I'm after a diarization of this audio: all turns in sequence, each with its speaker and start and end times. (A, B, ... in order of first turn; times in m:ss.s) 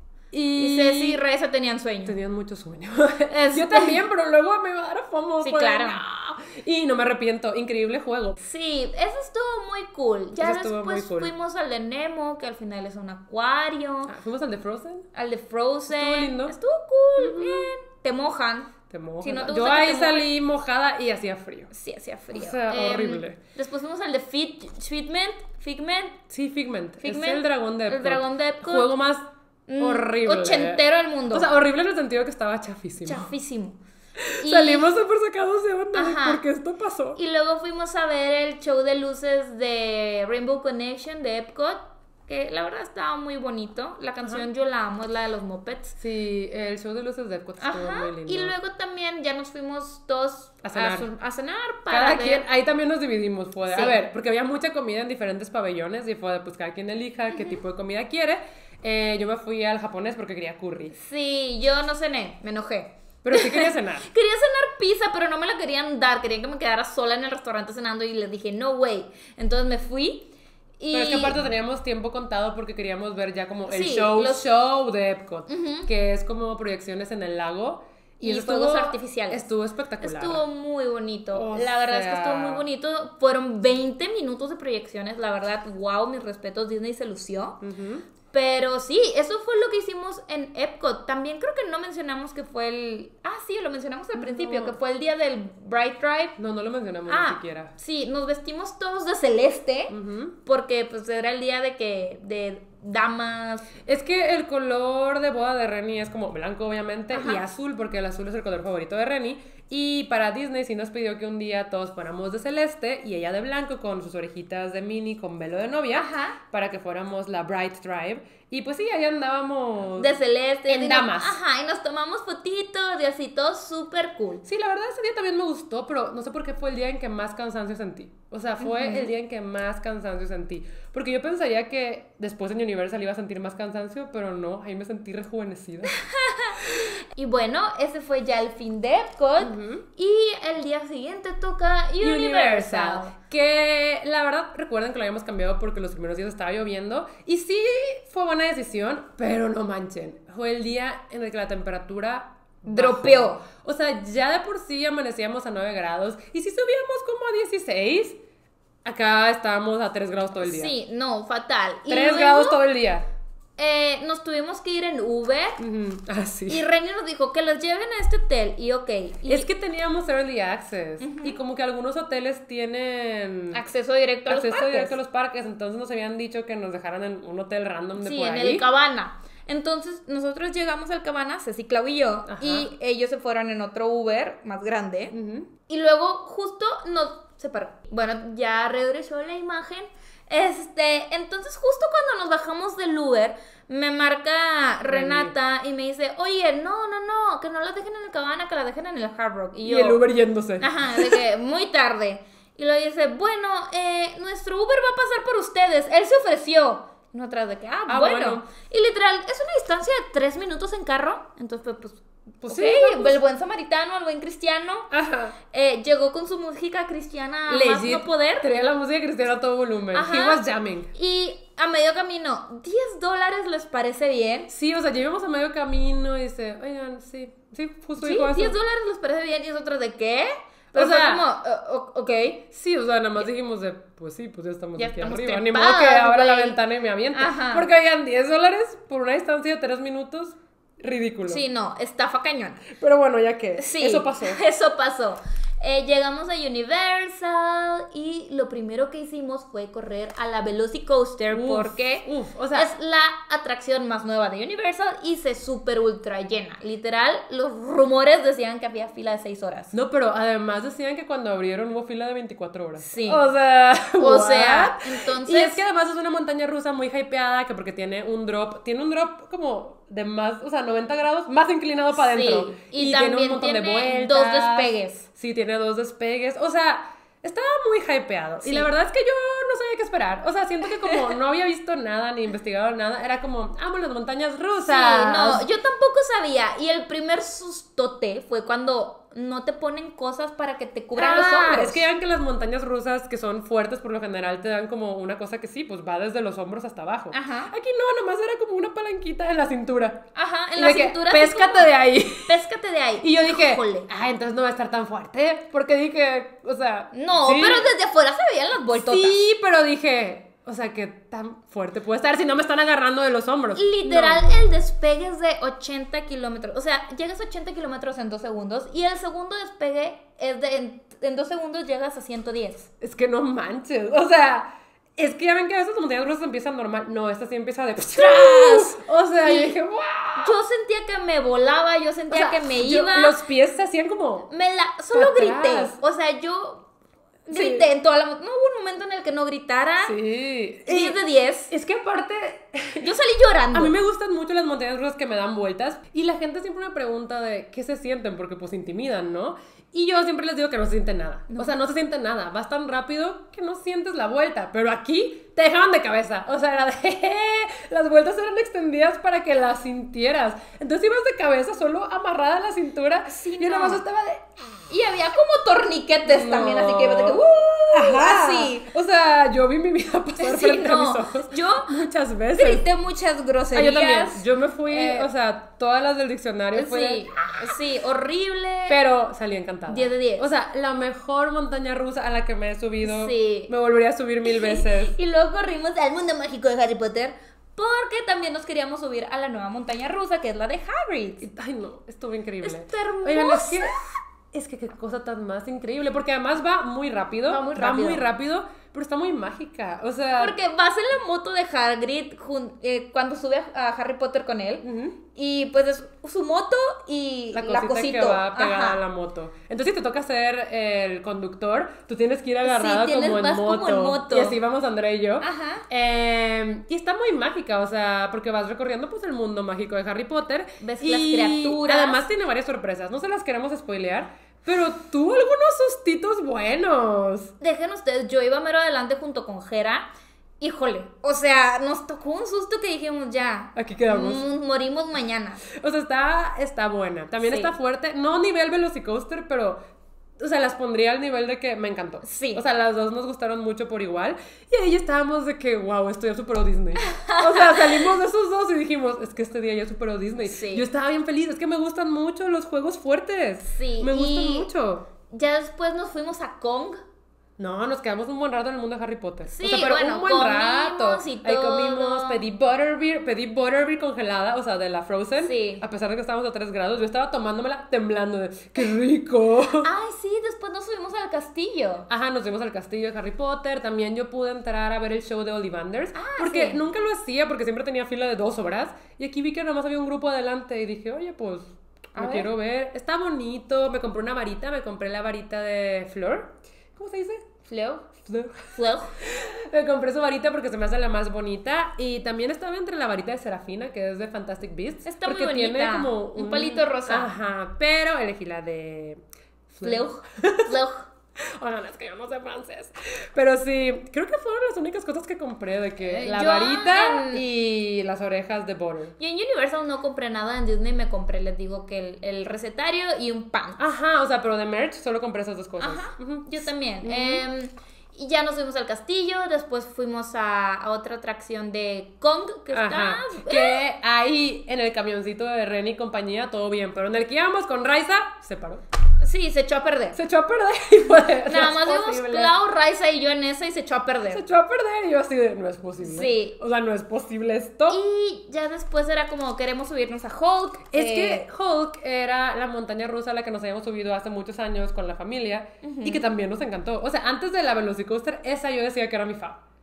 0:00.3-0:01.2 A
0:00.6-0:02.2 B
0:02.0-0:08.4 A
0:03.3-0:04.0 B
0:05.4-0:06.0 B
0:08.4-0:14.1 B
0:10.3-0:11.3 A
0:14.1-0:15.1 A
0:15.1-0:20.2 B
0:15.9-0:16.6 A
0:17.2-0:17.7 A
0:18.9-0:21.7 A
0:21.7-0:26.2 B
0:22.3-0:23.4 A
0:26.3-0:29.2 A
0:27.0-0:28.9 B
0:29.7-0:31.5 B
0:29.8-0:33.3 A
0:33.0-0:33.8 B
0:34.2-0:37.2 A
0:34.4-0:34.9 B
0:35.9-0:36.4 B
0:37.2-0:46.0 B
0:46.0-0:48.6 A
0:47.6-0:52.4 B
0:50.6-0:51.1 A
0:51.9-1:00.9 A
0:53.7-0:54.0 B
1:00.9-1:11.4 B
1:03.2-1:04.1 A
1:10.9-1:20.4 A
1:13.7-1:14.5 B
1:15.5-1:15.9 B
1:18.2-1:19.5 B
1:20.0-1:27.6 B
1:21.3-1:22.6 A
1:27.6-1:28.0 A
1:28.3-1:36.4 B
1:34.1-1:34.8 A
1:36.4-1:37.7 A
1:37.1-1:43.7 B
1:39.9-1:40.3 A
1:43.8-2:00.1 A
1:47.1-1:47.4 B
1:55.9-1:56.4 B
2:00.0-2:04.4 B
2:00.7-2:01.4 A
2:04.4-2:16.0 A
2:08.6-2:09.1 B
2:16.1-2:16.6 B
2:17.1-2:23.1 B
2:19.4-2:19.9 A
2:22.0-2:38.2 A
2:32.6-2:33.4 B
2:38.8-2:40.7 A
2:40.4-2:42.6 B
2:41.9-2:43.1 A
2:43.6-2:45.6 B
2:45.6-2:46.7 A
2:46.5-2:49.5 B
2:49.2-2:53.6 A
2:51.0-2:51.4 B
2:53.5-2:54.9 B
2:54.3-2:58.6 A
2:58.0-3:05.2 B
3:02.3-3:02.7 A
3:05.1-3:05.5 A
3:05.7-3:20.0 B
3:14.9-3:15.3 A
3:19.6-3:21.2 A
3:20.6-3:34.9 B
3:27.9-3:28.5 A
3:32.4-3:33.2 A
3:34.9-3:35.3 A
3:35.5-3:38.4 B
3:37.5-3:40.9 A
3:39.9-3:44.5 B
3:44.5-3:48.6 A
3:48.0-3:52.4 B
3:50.7-3:51.2 A
3:52.5-4:01.4 A
3:54.8-3:56.6 B
3:57.1-3:57.7 B
4:01.3-4:02.7 B
4:02.7-4:04.4 A
4:03.6-4:19.7 B
4:11.3-4:12.7 A
4:19.7-4:45.4 A
4:22.8-4:23.2 B
4:24.0-4:25.6 B
4:32.0-4:35.1 B
4:38.4-4:38.7 B
4:44.6-4:51.8 B
4:50.9-5:00.0 A
4:57.1-4:57.5 B
5:00.1-5:03.9 B
5:00.6-5:02.4 A
5:03.0-5:07.7 A
5:06.9-5:09.1 B
5:08.7-5:14.5 A
5:13.6-5:22.7 B
5:22.8-5:30.4 A
5:27.9-5:29.6 B
5:30.2-5:33.2 B
5:32.1-5:34.3 A
5:34.3-5:36.6 B
5:34.9-5:35.8 A
5:37.3-5:39.9 B
5:37.3-5:37.6 A
5:39.8-5:41.0 A
5:40.6-5:41.5 B
5:41.5-5:42.9 A
5:42.8-5:43.7 B
5:43.5-6:04.2 A
5:51.3-5:51.5 B
6:03.1-6:03.8 B
6:04.7-6:08.6 B
6:06.0-6:12.7 A
6:10.2-6:11.7 B
6:12.3-6:15.1 B
6:13.5-6:17.6 A
6:16.5-6:18.8 B
6:18.7-6:24.9 A
6:19.7-6:20.3 B
6:22.8-6:23.5 B
6:24.2-6:31.2 B
6:31.2-6:33.8 A
6:32.4-6:33.8 B
6:34.3-6:40.4 A
6:37.3-6:38.0 B
6:40.2-6:48.8 B
6:44.6-6:45.0 A
6:47.3-7:07.3 A
6:52.4-6:54.4 B
6:55.2-6:55.6 B
7:00.6-7:02.0 B
7:07.4-7:09.9 B
7:10.4-7:15.4 B
7:13.6-7:14.2 A
7:15.5-7:19.6 A
7:17.2-7:17.5 B
7:20.2-7:34.9 A
7:22.0-7:22.4 B
7:26.8-7:27.8 B
7:30.2-7:30.7 B
7:33.5-7:34.5 B
7:35.1-7:36.8 B
7:37.4-7:49.7 A
7:39.3-7:42.2 B
7:45.2-7:45.6 B
7:49.6-7:51.9 B
7:51.9-8:07.2 A
7:55.9-7:56.6 B
8:01.9-8:02.3 B
8:07.5-8:07.9 B
8:08.0-8:20.6 A
8:08.5-8:09.0 B
8:14.9-8:17.1 B
8:19.6-8:20.9 B
8:21.2-8:28.9 A
8:25.8-8:27.2 B
8:29.0-8:33.6 B
8:33.6-8:37.2 A
8:35.6-8:43.6 B
8:42.5-8:48.6 A
8:49.0-8:50.0 B
8:49.9-8:52.3 A
8:51.2-8:54.2 B
8:54.1-8:57.8 A
8:55.8-8:56.4 B
8:57.7-9:01.2 B
9:00.7-9:09.4 A
9:05.6-9:06.0 B